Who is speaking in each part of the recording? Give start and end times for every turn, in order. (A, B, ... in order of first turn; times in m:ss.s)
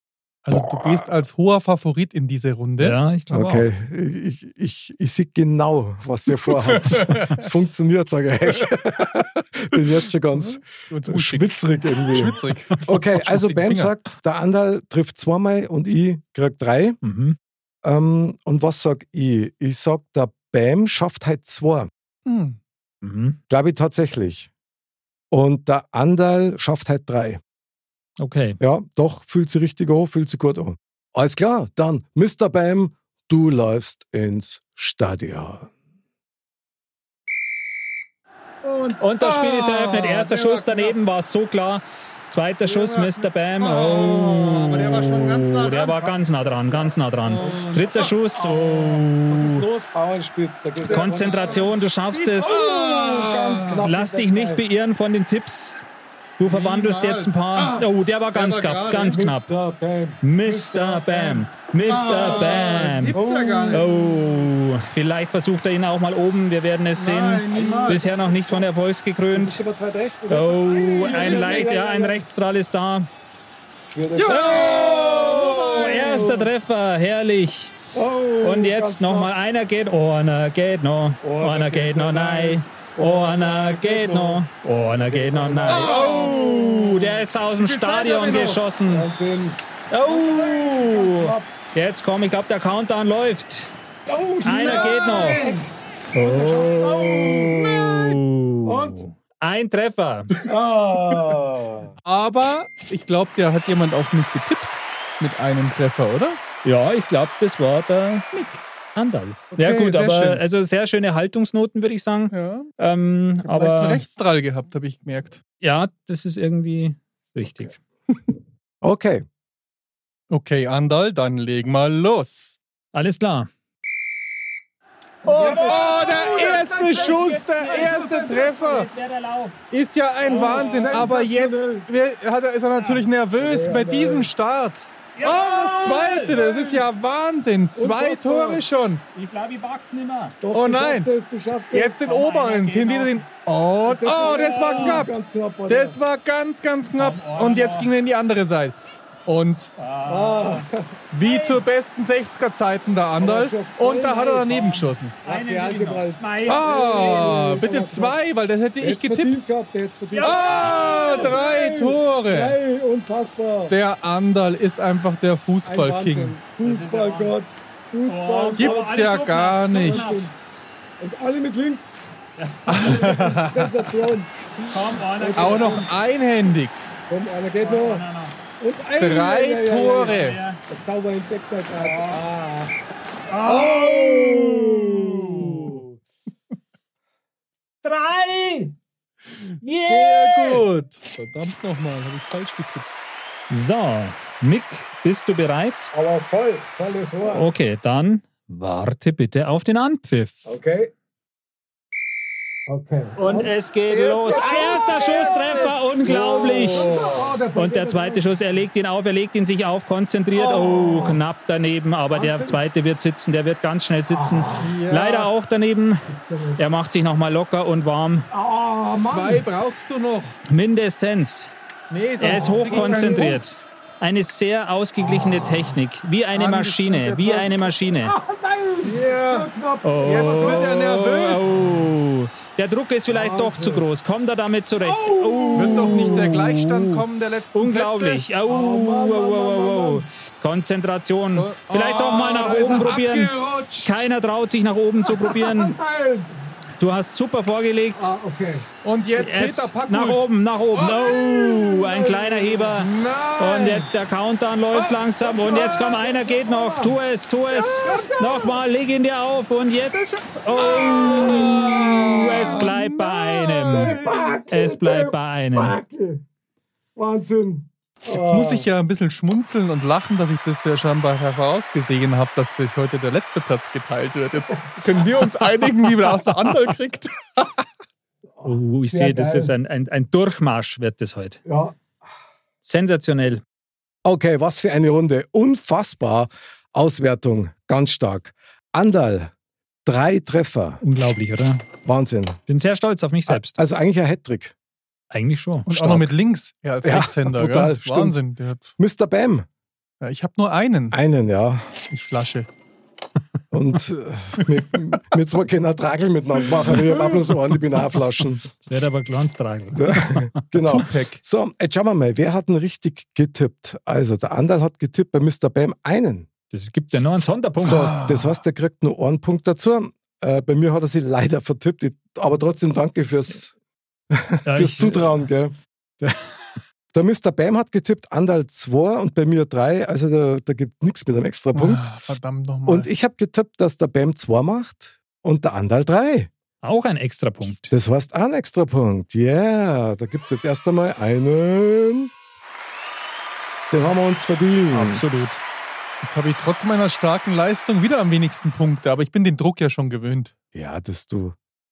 0:00.4-0:03.0 A
0:02.8-0:03.7 B
0:03.3-0:17.0 C
0:06.8-0:07.3 A
0:10.7-0:14.0 A
0:17.0-0:17.4 B
0:17.8-0:21.9 C
0:22.3-0:22.6 A
0:23.0-0:23.4 B
0:23.5-0:24.5 C
0:25.3-0:27.4 C
0:28.2-0:28.6 B
0:28.6-0:35.7 C
0:38.6-0:41.0 A
0:39.0-0:49.7 B
0:42.6-0:46.1 A
0:45.9-0:47.8 C
0:47.2-0:48.2 A
0:48.3-0:51.8 C
0:50.8-0:53.8 A
0:50.8-0:52.6 B
0:52.4-0:54.6 C
0:53.8-0:55.8 B
0:56.4-0:59.5 B
0:56.4-0:57.8 A
0:58.3-0:59.2 A
0:59.0-1:04.4 C
1:00.2-1:03.2 B
1:01.8-1:03.9 A
1:03.7-1:09.6 B
1:07.0-1:08.2 A
1:07.5-1:08.7 C
1:09.3-1:12.2 C
1:10.3-1:13.1 B
1:11.0-1:11.8 A
1:13.9-1:16.5 C
1:14.2-1:16.3 A
1:15.6-1:17.8 B
1:17.9-1:19.3 C
1:18.4-1:29.1 B
1:21.2-1:27.1 C
1:25.7-1:27.0 A
1:27.6-1:28.6 A
1:28.9-1:31.5 C
1:29.9-1:33.7 B
1:34.1-1:39.1 C
1:34.4-1:35.4 B
1:36.1-1:40.3 B
1:40.4-1:41.9 C
1:42.0-1:46.4 A
1:46.6-1:48.3 B
1:48.3-1:48.6 A
1:49.0-1:54.0 B
1:49.5-1:50.4 A
1:52.3-1:52.7 A
1:53.4-1:55.4 A
1:55.6-1:57.8 B
1:58.8-1:59.2 C
2:00.3-2:02.6 A
2:02.9-2:03.5 B
2:05.2-2:08.6 C
2:05.2-2:08.9 A
2:05.3-2:09.6 B
2:09.7-2:19.0 A
2:10.2-2:11.1 B
2:10.2-2:11.9 C
2:12.8-2:13.0 B
2:13.4-2:14.3 C
2:15.2-2:16.4 B
2:15.8-2:16.8 C
2:17.8-2:18.6 C
2:19.1-2:20.4 B
2:20.4-2:22.1 C
2:20.5-2:21.1 A
2:21.7-2:25.1 A
2:22.0-2:23.2 B
2:23.9-2:26.0 C
2:24.2-2:25.1 B
2:25.7-2:29.7 A
2:27.0-2:27.9 B
2:29.8-2:30.7 B
2:30.1-2:30.9 C
2:31.1-2:35.2 A
2:31.2-2:31.6 B
2:33.2-2:34.7 C
2:34.5-2:37.3 B
2:35.2-2:38.2 C
2:36.5-2:39.5 A
2:38.8-2:43.8 C
2:40.1-2:41.3 B
2:40.2-2:42.6 A
2:43.7-2:46.4 A
2:45.6-2:49.0 C
2:46.6-2:47.4 B
2:48.1-2:50.3 B
2:48.6-2:50.2 A
2:49.8-2:50.3 C
2:51.0-2:52.0 C
2:52.4-2:53.1 B
2:52.7-2:53.7 A
2:52.8-2:55.9 C
2:54.7-2:55.9 B
2:55.4-2:56.9 A
2:57.1-2:58.0 C
2:57.6-2:58.4 B
2:58.6-3:00.2 C
2:59.0-3:00.4 A
3:00.0-3:00.6 B
3:00.7-3:02.7 C
3:01.8-3:02.2 B
3:03.3-3:05.8 B
3:03.4-3:06.0 C
3:07.8-3:08.8 B
3:09.6-3:10.7 B
3:09.7-3:12.9 A
3:13.5-3:15.9 B
3:15.9-3:17.5 C
3:17.3-3:20.4 B
3:20.5-3:20.9 C
3:22.7-3:23.6 C
3:23.2-3:26.9 B
3:23.9-3:27.4 A
3:24.2-3:28.3 C
3:27.5-3:38.3 B
3:30.3-3:31.2 C
3:32.2-3:32.6 A
3:34.1-3:34.7 C
3:34.6-3:35.3 A
3:36.2-3:36.6 C
3:38.3-3:39.4 C
3:39.0-3:40.4 A
3:40.5-3:41.5 B
3:41.9-3:43.4 A
3:42.2-3:48.2 B
3:42.2-3:43.4 C
3:45.2-3:45.4 C
3:46.3-3:47.7 A
3:48.0-3:51.8 C
3:48.8-3:49.5 A
3:49.8-4:05.8 B
3:50.0-3:51.8 A
3:53.1-3:53.9 C
3:54.8-3:56.4 C
3:55.5-3:58.3 A
3:58.5-4:00.0 C
4:01.4-4:04.0 A
4:02.5-4:02.8 C
4:05.1-4:06.4 C
4:06.8-4:08.1 B
4:07.9-4:08.7 C
4:08.8-4:11.2 A
4:09.2-4:24.0 B
4:11.1-4:12.7 C
4:12.7-4:13.9 A
4:14.8-4:16.0 A
4:15.2-4:17.0 C
4:17.6-4:18.1 A
4:17.8-4:18.5 C
4:19.9-4:24.3 A
4:20.6-4:22.7 C
4:23.7-4:26.2 C
4:24.5-4:25.8 B
4:27.0-4:28.7 C
4:28.1-4:37.6 A
4:38.4-4:39.5 C
4:38.4-4:41.4 B
4:41.5-4:41.8 C
4:42.6-4:43.4 B
4:44.0-4:49.3 C
4:49.8-4:50.8 C
4:50.8-4:51.7 B
4:51.8-4:52.4 C
4:52.5-4:53.6 B
4:53.3-4:54.5 C
4:55.1-4:56.1 B
4:55.7-4:58.7 A
4:56.8-4:58.2 C
4:58.8-4:59.5 C
5:00.0-5:01.0 A
5:00.9-5:01.7 C
5:01.9-5:02.5 A
5:03.5-5:08.4 C
5:08.6-5:10.4 B
5:09.8-5:16.3 C
5:10.6-5:11.2 A
5:16.5-5:18.0 B
5:17.6-5:23.5 C
5:17.6-5:18.4 A
5:24.1-5:25.6 C
5:24.5-5:25.2 B
5:26.0-5:26.6 B
5:26.9-5:31.9 C
5:31.5-5:32.9 A
5:32.7-5:36.3 C
5:36.6-5:37.7 B
5:37.7-5:42.1 C
5:43.7-5:45.4 C
5:44.7-5:45.4 B
5:46.0-5:50.3 A
5:50.5-5:51.4 C